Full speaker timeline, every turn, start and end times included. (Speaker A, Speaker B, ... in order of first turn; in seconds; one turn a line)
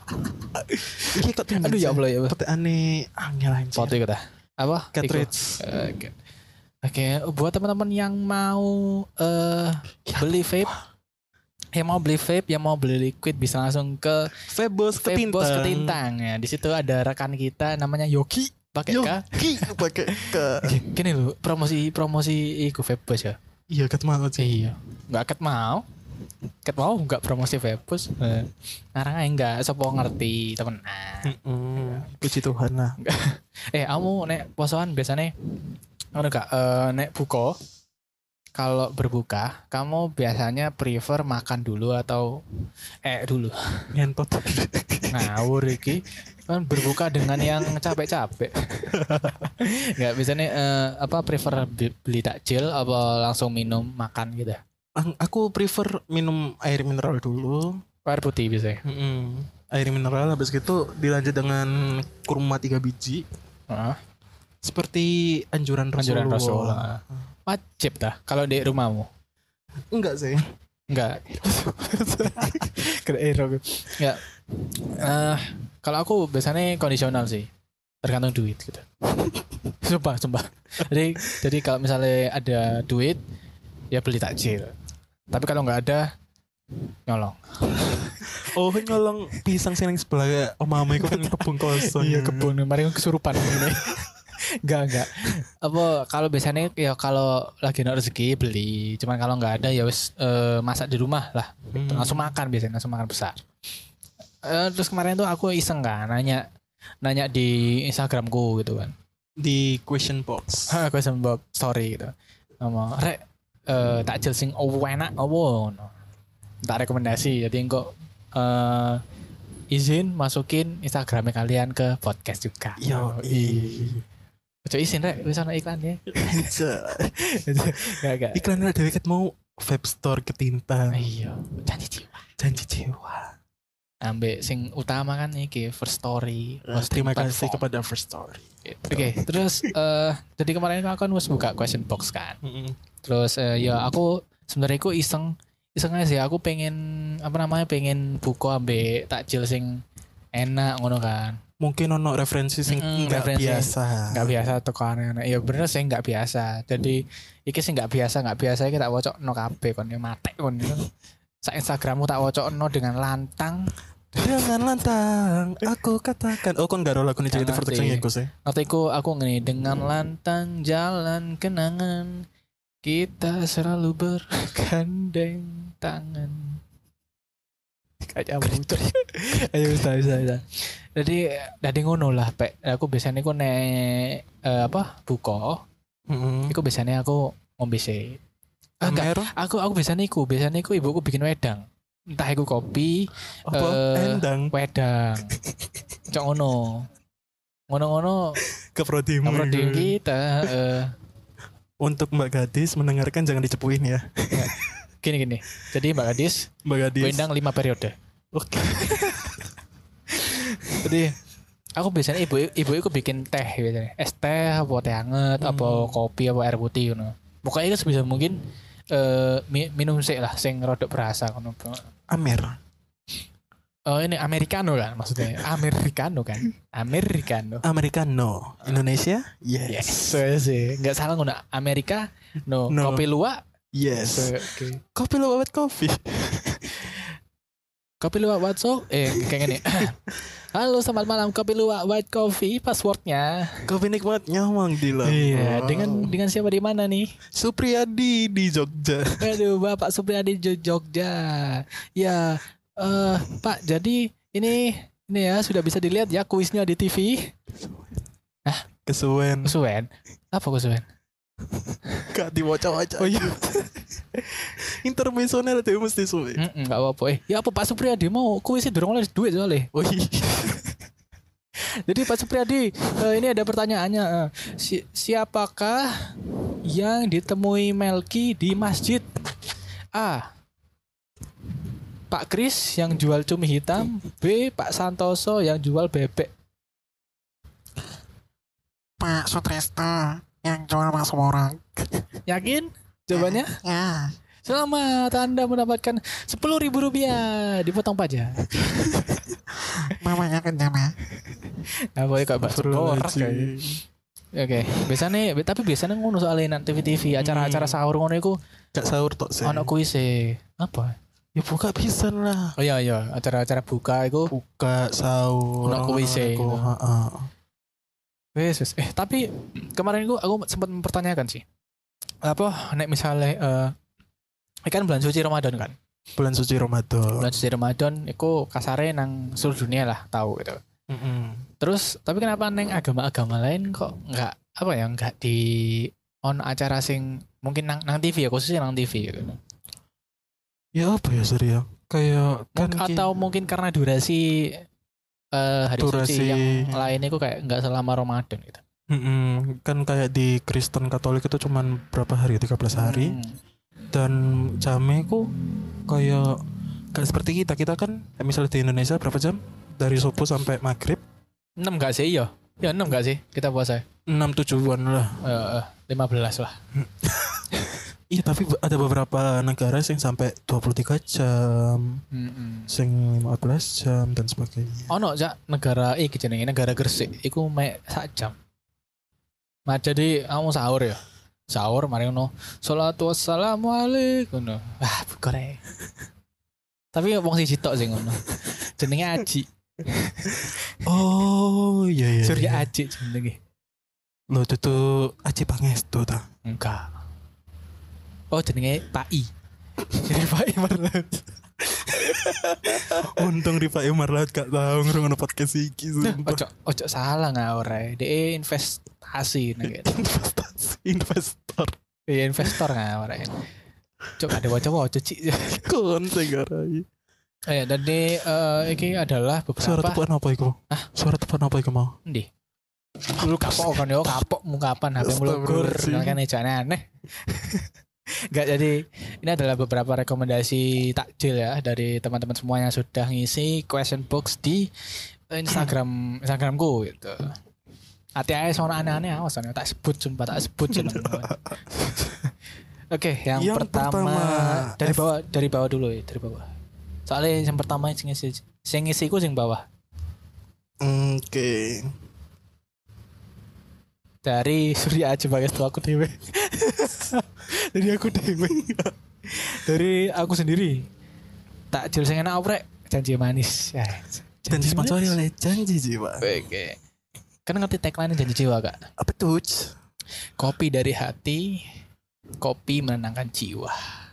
Speaker A: 0.6-2.4
Speaker B: 1.1-4.0
Speaker A: 3.7-6.1
Speaker B: 4.9-5.6
Speaker A: 6.8-10.7
Speaker B: 10.1-10.8
Speaker A: 11.7-14.3
Speaker B: 14.4-16.0
Speaker A: 15.0-23.4
Speaker B: 18.9-20.8
Speaker B: 23.7-24.6
Speaker A: 24.4-25.8
Speaker A: 26.6-31.3
Speaker B: 31.2-33.0
Speaker A: 33.0-35.3
Speaker A: 36.1-37.6
Speaker A: 38.5-42.4
Speaker A: 43.0-43.5
Speaker B: 43.9-45.3
Speaker A: 45.1-48.9
Speaker B: 46.7-47.9
Speaker B: 48.9-49.5
Speaker A: 49.6-54.6
Speaker B: 55.0-57.8
Speaker A: 58.0-58.8
Speaker B: 58.8-63.2
Speaker A: 63.7-64.0
Speaker B: 64.6-67.0
Speaker A: 66.0-69.1
Speaker B: 69.9-70.5
Speaker A: 70.9-74.2
Speaker B: 72.4-72.6
Speaker A: 74.8-77.5
Speaker A: 78.0-78.8
Speaker A: 79.8-83.2
Speaker A: 83.9-84.7
Speaker A: 85.3-86.1
Speaker A: 87.1-88.5
Speaker B: 88.4-92.6
Speaker A: 90.9-103.4
Speaker B: 93.4-94.1
Speaker B: 101.7-102.3
Speaker A: 104.4-106.5
Speaker A: 107.0-108.9
Speaker B: 109.4-110.8
Speaker A: 110.7-115.9
Speaker A: 116.6-119.0
Speaker A: 119.7-124.0
Speaker B: 122.8-124.0
Speaker A: 124.6-126.5
Speaker B: 126.1-127.2
Speaker A: 127.1-128.4
Speaker B: 128.3-131.1
Speaker A: 130.9-132.2
Speaker B: 132.4-133.3
Speaker A: 134.0-137.6
Speaker B: 136.7-139.7
Speaker A: 138.7-142.4
Speaker B: 142.4-142.8
Speaker A: 143.0-149.8
Speaker A: 150.3-151.4
Speaker B: 151.6-154.3
Speaker A: 152.7-160.9
Speaker A: 161.4-164.3
Speaker B: 164.2-168.3
Speaker A: 167.3-172.2
Speaker A: 172.8-176.6
Speaker A: 178.0-185.6
Speaker B: 178.4-178.8
Speaker B: 186.1-186.6
Speaker A: 186.5-188.2
Speaker B: 188.8-189.3
Speaker A: 188.8-195.3
Speaker B: 193.4-194.5
Speaker A: 196.1-196.9
Speaker A: 197.7-198.4
Speaker B: 198.5-200.5
Speaker A: 199.2-200.9
Speaker B: 201.8-204.7
Speaker A: 204.3-207.9
Speaker B: 206.6-207.3
Speaker B: 208.3-209.5
Speaker A: 210.1-211.2
Speaker A: 211.8-218.4
Speaker B: 215.4-216.0
Speaker A: 218.9-221.8
Speaker B: 222.1-222.6
Speaker A: 223.9-227.6
Speaker B: 227.6-230.2
Speaker A: 229.7-233.4
Speaker B: 232.7-233.1
Speaker B: 233.7-237.0
Speaker A: 233.9-234.8
Speaker A: 238.0-243.7
Speaker B: 239.1-239.9
Speaker B: 243.7-246.2
Speaker A: 245.0-247.1
Speaker B: 247.3-249.3
Speaker A: 249.2-257.3
Speaker B: 257.6-257.9
Speaker B: 258.9-259.5
Speaker A: 259.4-260.8
Speaker B: 262.1-263.5
Speaker A: 263.0-263.7
Speaker B: 264.1-266.4
Speaker A: 266.4-269.7
Speaker B: 269.7-270.7
Speaker A: 271.9-279.2
Speaker A: 279.9-280.3
Speaker A: 282.1-286.3
Speaker C: 289.0-291.8
Speaker A: 292.3-293.6
Speaker C: 293.1-294.1
Speaker A: 294.4-299.1
Speaker C: 299.9-300.9
Speaker A: 301.9-303.5
Speaker B: 302.4-303.8
Speaker A: 304.3-308.4
Speaker B: 307.2-307.8
Speaker B: 308.7-309.7
Speaker A: 309.4-310.9
Speaker B: 311.3-312.6
Speaker A: 312.6-314.3
Speaker B: 314.3-317.3
Speaker A: 315.6-316.7
Speaker A: 318.3-321.4
Speaker A: 322.2-323.7
Speaker A: 324.6-325.7
Speaker B: 326.1-327.3
Speaker A: 327.1-330.6
Speaker B: 330.9-331.4
Speaker A: 331.6-339.4
Speaker B: 340.7-343.1
Speaker A: 342.5-344.6
Speaker A: 345.3-348.6
Speaker B: 345.8-346.9
Speaker B: 348.9-353.2
Speaker A: 352.7-353.3
Speaker B: 353.9-355.3
Speaker B: 355.9-356.4
Speaker B: 356.9-361.0
Speaker A: 361.6-363.8
Speaker B: 364.1-365.2
Speaker A: 365.2-366.6
Speaker B: 366.7-367.5
Speaker B: 368.1-372.0
Speaker A: 372.1-372.7
Speaker B: 372.7-374.9
Speaker A: 374.9-378.4
Speaker A: 379.7-385.6
Speaker A: 386.9-390.8
Speaker B: 390.8-392.7
Speaker A: 392.2-393.4
Speaker B: 394.3-396.2
Speaker A: 396.4-396.9
Speaker A: 398.3-399.3
Speaker A: 399.9-403.2
Speaker B: 402.6-406.4
Speaker A: 406.0-409.9
Speaker B: 409.6-411.8
Speaker A: 412.1-413.4
Speaker A: 414.2-415.7
Speaker B: 415.5-416.9
Speaker A: 417.5-420.0
Speaker B: 419.6-421.9
Speaker A: 423.1-434.7
Speaker B: 423.2-424.1
Speaker B: 425.0-426.2
Speaker A: 435.3-437.3
Speaker A: 438.2-441.4
Speaker B: 440.7-442.2
Speaker A: 442.9-446.5
Speaker B: 443.4-445.1
Speaker A: 447.1-449.6
Speaker B: 450.8-451.9
Speaker A: 454.2-458.6
Speaker B: 458.4-458.9
Speaker A: 459.2-460.8
Speaker A: 461.7-465.2
Speaker B: 464.5-466.2
Speaker A: 466.2-466.8
Speaker A: 467.4-468.8
Speaker B: 469.0-469.7
Speaker A: 470.4-471.6
Speaker A: 472.4-473.9